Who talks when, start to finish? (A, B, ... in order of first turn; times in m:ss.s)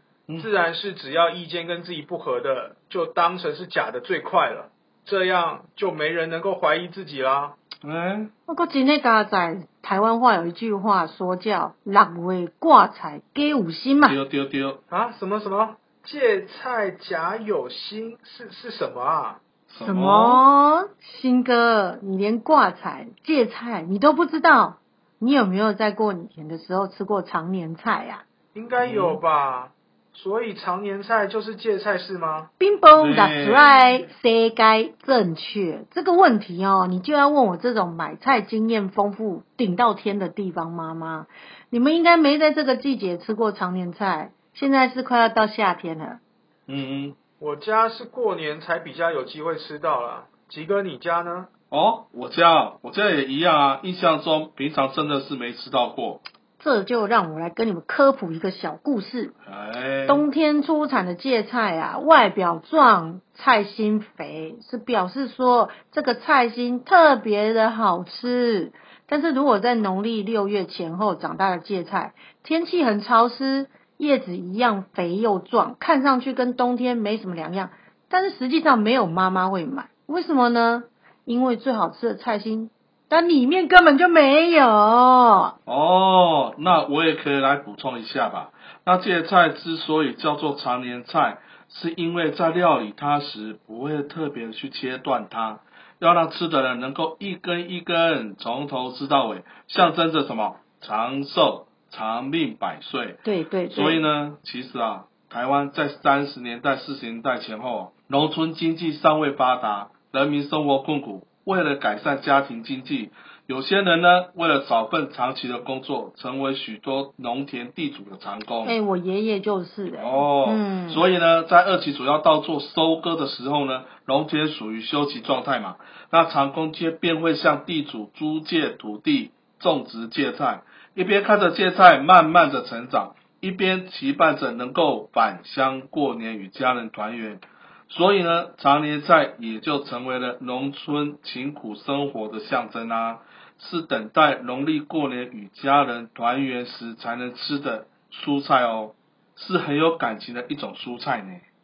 0:00.4-0:07.6 A
0:07.8-0:08.3 B
0:08.5-0:14.2 C
0:14.0-0:14.8 B
0:14.9-0:19.4 A
0:19.7-0:20.4 B
0:19.8-0:28.2 C
0:28.5-0:32.5 A
0:28.8-0:29.2 B
0:32.6-0:46.2 C
0:33.0-0:33.8 B
0:46.7-0:47.2 B
0:47.4-0:51.5 A
0:51.7-0:56.2 B
0:56.6-0:59.3 C
0:59.4-1:00.2 B
1:00.1-1:25.6 C
1:25.6-1:58.8 B
1:43.2-1:44.0 C
1:58.6-2:01.0 C
2:00.0-2:31.4 B